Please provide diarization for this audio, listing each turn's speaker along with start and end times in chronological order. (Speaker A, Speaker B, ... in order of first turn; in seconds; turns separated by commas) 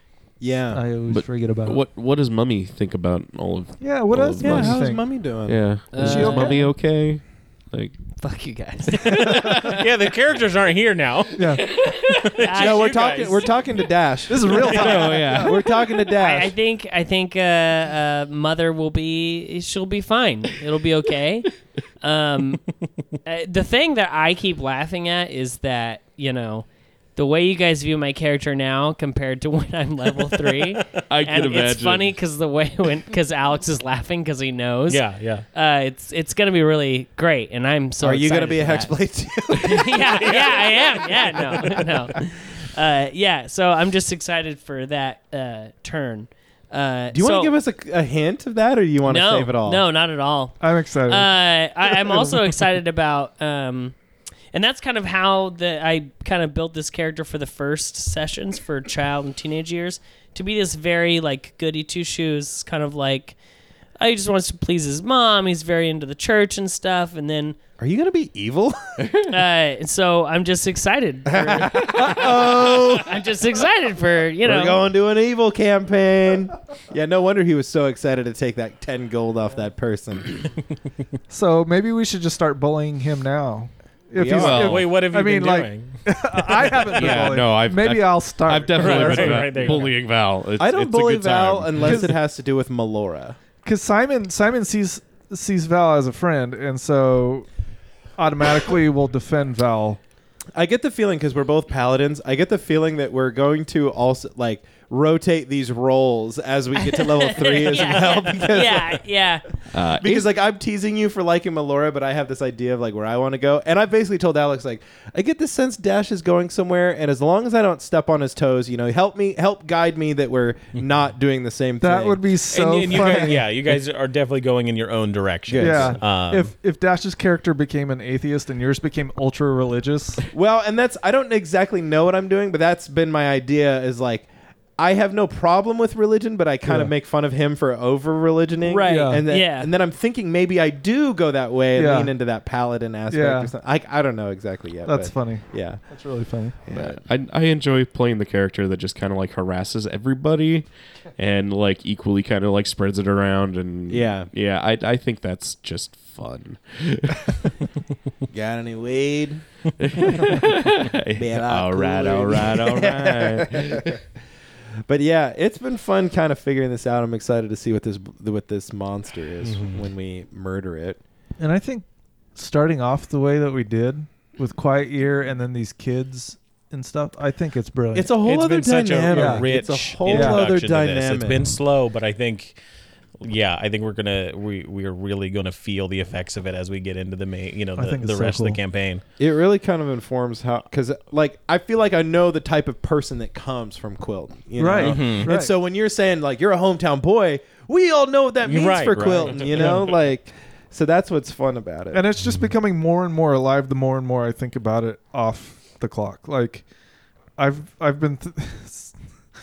Speaker A: 0.4-1.0, Speaker B: 0.5-1.8, Speaker C: 1.1-4.8, Speaker B: 3.8-5.0, Speaker A: 4.4-5.8, Speaker C: 5.5-8.0, Speaker D: 5.9-6.7, Speaker B: 5.9-6.6, Speaker D: 8.2-9.7, Speaker E: 9.0-13.6, Speaker B: 11.3-11.6, Speaker D: 12.4-13.6, Speaker A: 12.5-16.5, Speaker B: 14.3-15.6, Speaker C: 14.8-15.6, Speaker D: 15.0-15.3, Speaker D: 16.1-22.6, Speaker D: 23.2-47.6, Speaker C: 31.1-32.1, Speaker E: 34.9-35.4, Speaker A: 38.0-42.0, Speaker A: 47.1-49.9, Speaker D: 49.0-53.9, Speaker B: 50.6-51.3, Speaker D: 54.5-63.4, Speaker D: 64.0-67.6, Speaker A: 67.8-69.1, Speaker D: 69.2-74.9, Speaker A: 71.2-73.2, Speaker A: 74.4-80.3, Speaker B: 81.3-89.9, Speaker A: 84.2-84.8, Speaker E: 84.4-87.3, Speaker C: 84.5-84.8, Speaker C: 86.9-92.1, Speaker E: 88.8-90.0, Speaker A: 90.6-93.4, Speaker B: 91.8-92.1, Speaker B: 93.6-97.5, Speaker B: 98.2-100.0, Speaker A: 100.5-109.0, Speaker D: 106.8-109.5, Speaker E: 107.7-108.7, Speaker C: 109.7-110.3, Speaker A: 109.9-122.4, Speaker B: 121.8-123.4, Speaker E: 122.5-126.5, Speaker A: 125.5-126.0, Speaker B: 125.6-130.2, Speaker A: 130.3-145.8, Speaker B: 136.6-136.9, Speaker D: 138.6-139.7, Speaker B: 138.8-139.2, Speaker B: 141.8-142.1, Speaker B: 143.1-143.5, Speaker B: 144.8-146.9, Speaker A: 146.7-147.0, Speaker C: 146.8-157.3, Speaker A: 153.9-154.3, Speaker A: 158.3-159.4, Speaker C: 159.9-163.8, Speaker A: 161.2-164.0, Speaker A: 164.9-171.0, Speaker E: 169.4-169.8, Speaker B: 171.4-178.1, Speaker A: 177.9-181.5, Speaker E: 178.2-182.6, Speaker B: 179.1-179.4, Speaker B: 180.1-180.4, Speaker E: 183.2-189.0, Speaker B: 187.8-188.6, Speaker A: 189.2-202.0, Speaker B: 194.6-195.5, Speaker E: 194.8-195.3, Speaker E: 198.4-199.9, Speaker B: 199.6-199.9, Speaker B: 201.9-206.6, Speaker E: 202.2-202.5, Speaker B: 207.4-208.9